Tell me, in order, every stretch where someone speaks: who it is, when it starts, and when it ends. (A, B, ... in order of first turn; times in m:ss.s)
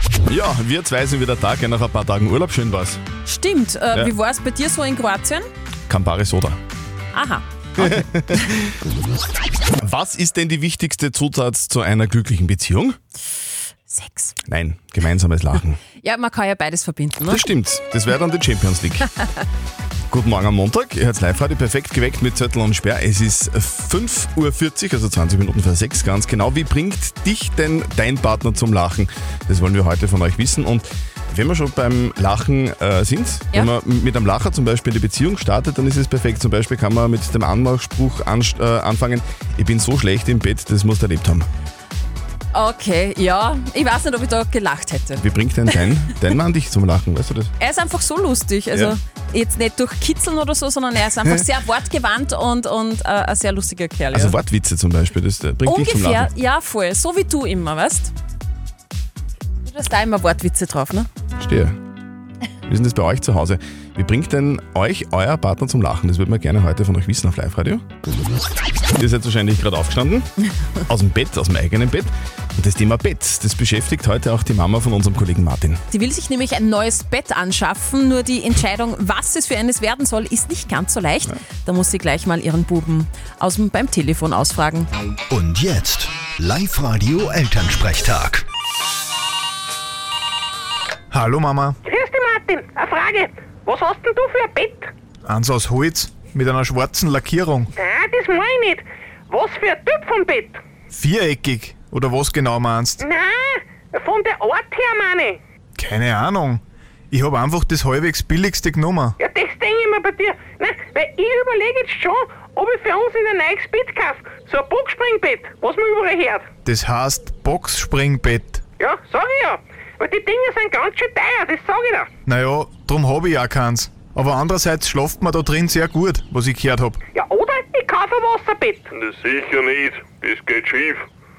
0:00.3-0:03.0 A
0:03.2-0:05.4 B
0:05.9-0:06.6 A
0:07.1-0:07.8 B
0:07.8-0:08.7 A
0:09.8-0:13.0 A
0:13.9-0:14.3 B
0:14.5-0:15.8 A
0:16.0-0:17.4 B
0:17.3-0:19.0 A
0:20.1-0:41.5 A
0:42.5-0:45.2 B
0:45.2-0:47.5 A
0:47.6-0:54.4 B
0:54.1-0:56.3 A
0:55.7-0:58.1 B
0:59.7-1:01.1 B
1:01.4-1:01.8 A
1:02.7-1:07.8 A
1:09.0-1:10.3 A
1:10.9-1:15.8 A
1:15.9-1:24.9 B
1:25.3-1:28.4 C
1:31.1-1:31.8 D
1:31.8-1:34.9 E
1:35.2-1:37.7 D
1:37.8-1:40.6 E
1:40.9-1:43.0 D
1:43.0-1:45.4 E
1:45.8-1:49.2 D
1:49.2-1:56.5 E
1:56.6-1:58.6 D
1:58.8-2:02.1 E
2:02.2-2:07.0 D
2:07.1-2:08.9 E
2:09.0-2:11.1 F